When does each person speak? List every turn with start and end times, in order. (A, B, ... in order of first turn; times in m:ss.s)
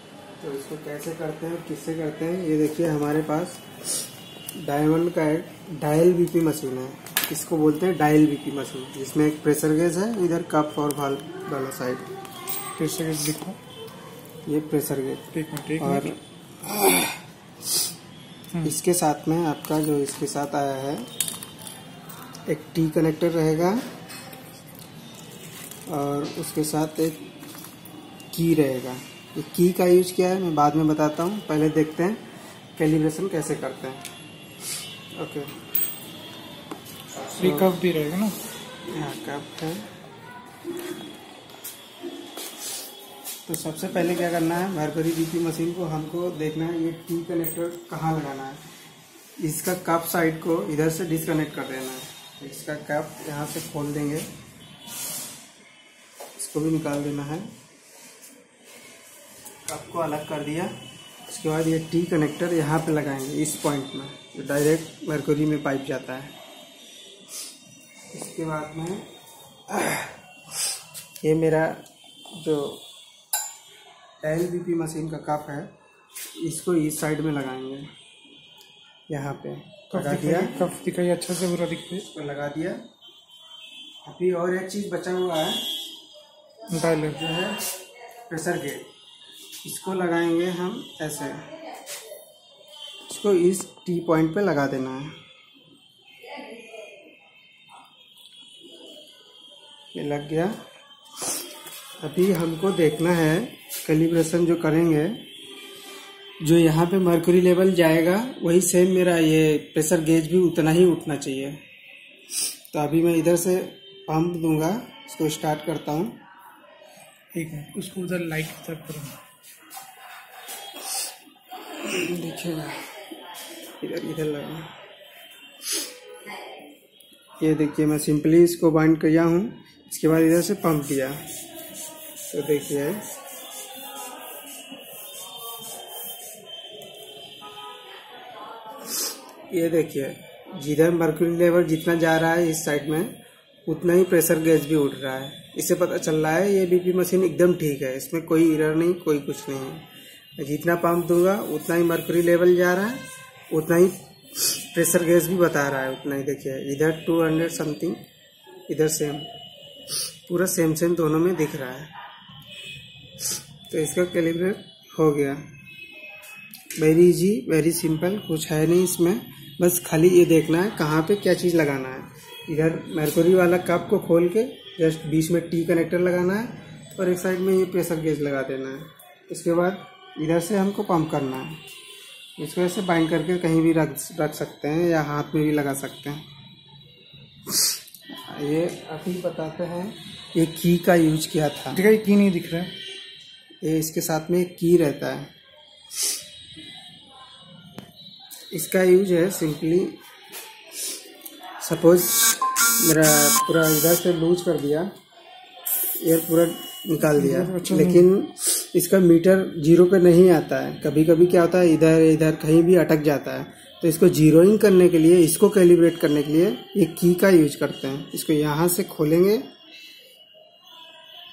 0:00.4-0:03.6 A
0:04.6-0:12.1 A
0:12.7-0:13.6 B
0:14.5-0:15.3 A
0:15.3-0:16.1 B
0:15.8-0:17.2 A
0:18.6-0:21.1 A
0:22.5-0:23.8 A
0:25.9-0:27.2 A
0:28.3-0:32.2 A
0:32.8-0:34.1 A
0:35.2-0:35.5 A
0:37.3-0:37.7 A
0:37.4-0:38.4 B
0:38.9-0:39.9 A
0:43.4-0:48.6 A
0:49.4-0:54.3 A
0:56.4-0:57.5 A
0:59.6-1:00.7 A
1:01.3-1:06.4 A
1:08.1-1:09.1 A
1:09.7-1:10.2 A
1:11.2-1:12.8 A
1:14.2-1:15.7 A
1:16.4-1:17.9 A
1:19.1-1:20.6 A
1:19.9-1:22.0 B
1:22.1-1:22.8 A
1:24.0-1:25.7 A
1:26.7-1:27.2 B
1:27.0-1:27.7 A
1:28.3-1:28.9 A
1:29.6-1:31.5 A
1:33.1-1:35.2 A
1:39.9-1:40.6 A
1:42.0-1:45.2 A
1:46.4-1:51.6 A
1:52.7-1:56.2 A
1:57.3-1:59.2 B
2:01.7-2:03.0 A
2:03.8-2:04.7 A
2:07.4-2:11.2 A
2:12.3-2:13.0 A
2:19.5-2:23.1 A
2:23.6-2:29.9 A
2:30.4-2:38.0 A
2:38.7-2:39.3 A
2:40.2-2:41.9 A
2:43.7-2:45.5 A
2:46.8-3:01.6 A
3:02.4-3:06.2 A
3:07.6-3:11.8 A
3:11.7-3:12.7 B
3:13.6-3:15.3 A
3:18.5-3:20.0 A
3:21.6-3:24.9 A
3:26.0-3:39.4 A
3:27.1-3:28.0 B